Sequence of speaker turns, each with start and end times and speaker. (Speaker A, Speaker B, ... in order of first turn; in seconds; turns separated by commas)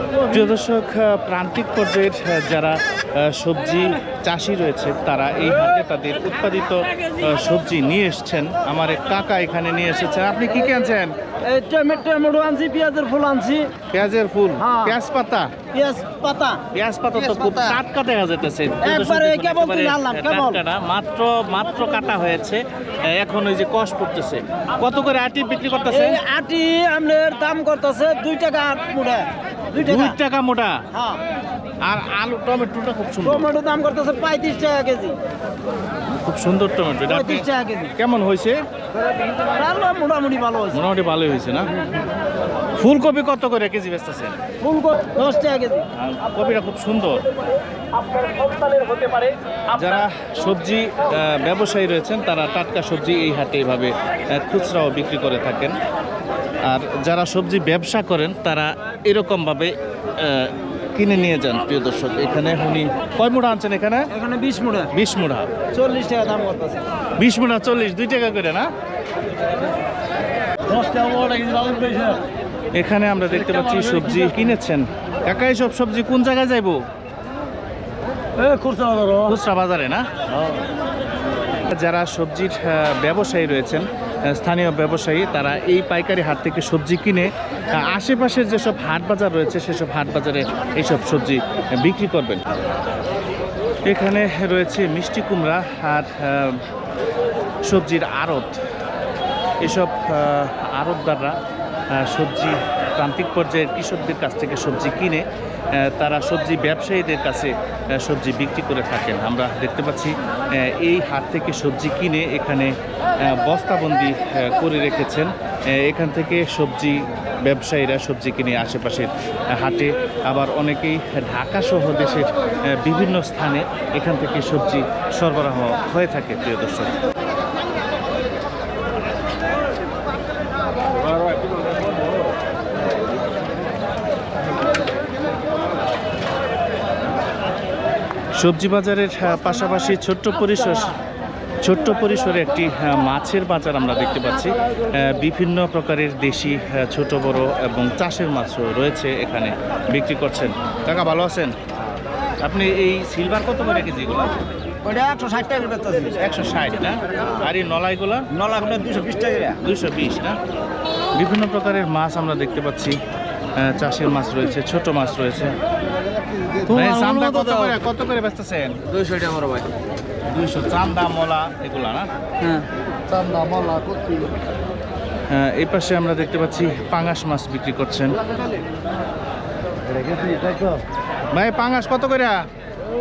Speaker A: 0.3-11.1, Speaker B: 11.4-13.7, Speaker A: 13.9-15.5, Speaker B: 14.6-14.9, Speaker B: 15.7-16.6, Speaker A: 16.7-26.2, Speaker B: 17.2-17.8, Speaker B: 18.8-20.6, Speaker B: 25.9-30.1, Speaker A: 29.8-30.8, Speaker B: 30.9-31.2, Speaker A: 31.8-33.5, Speaker B: 33.2-35.1, Speaker A: 36.1-37.5, Speaker B: 37.1-37.9, Speaker A: 38.0-38.6, Speaker B: 39.3-40.8, Speaker A: 40.7-41.7, Speaker A: 42.8-44.4, Speaker B: 44.6-45.8, Speaker A: 45.9-47.2, Speaker B: 48.8-49.2, Speaker A: 49.7-55.8, Speaker A: 56.7-64.1, Speaker B: 64.1-64.9, Speaker A: 64.9-65.5, Speaker B: 65.7-66.8, Speaker A: 67.2-68.7, Speaker B: 70.7-72.2, Speaker A: 72.8-76.8, Speaker B: 78.4-79.3, Speaker A: 79.2-80.0, Speaker A: 81.7-92.4, Speaker A: 93.8-96.6, Speaker A: 97.7-98.6, Speaker A: 99.6-101.3, Speaker A: 101.9-112.7, Speaker A: 113.2-126.9, Speaker A: 138.4-140.9, Speaker A: 141.6-151.5, Speaker A: 152.4-154.3, Speaker B: 154.8-156.2, Speaker A: 156.2-158.2, Speaker B: 158.3-159.6, Speaker A: 159.6-160.4, Speaker A: 161.2-163.0, Speaker A: 163.6-165.6, Speaker B: 166.6-167.8, Speaker A: 166.7-168.8, Speaker B: 168.9-169.7, Speaker A: 170.3-172.1, Speaker A: 175.3-178.2, Speaker A: 181.3-182.4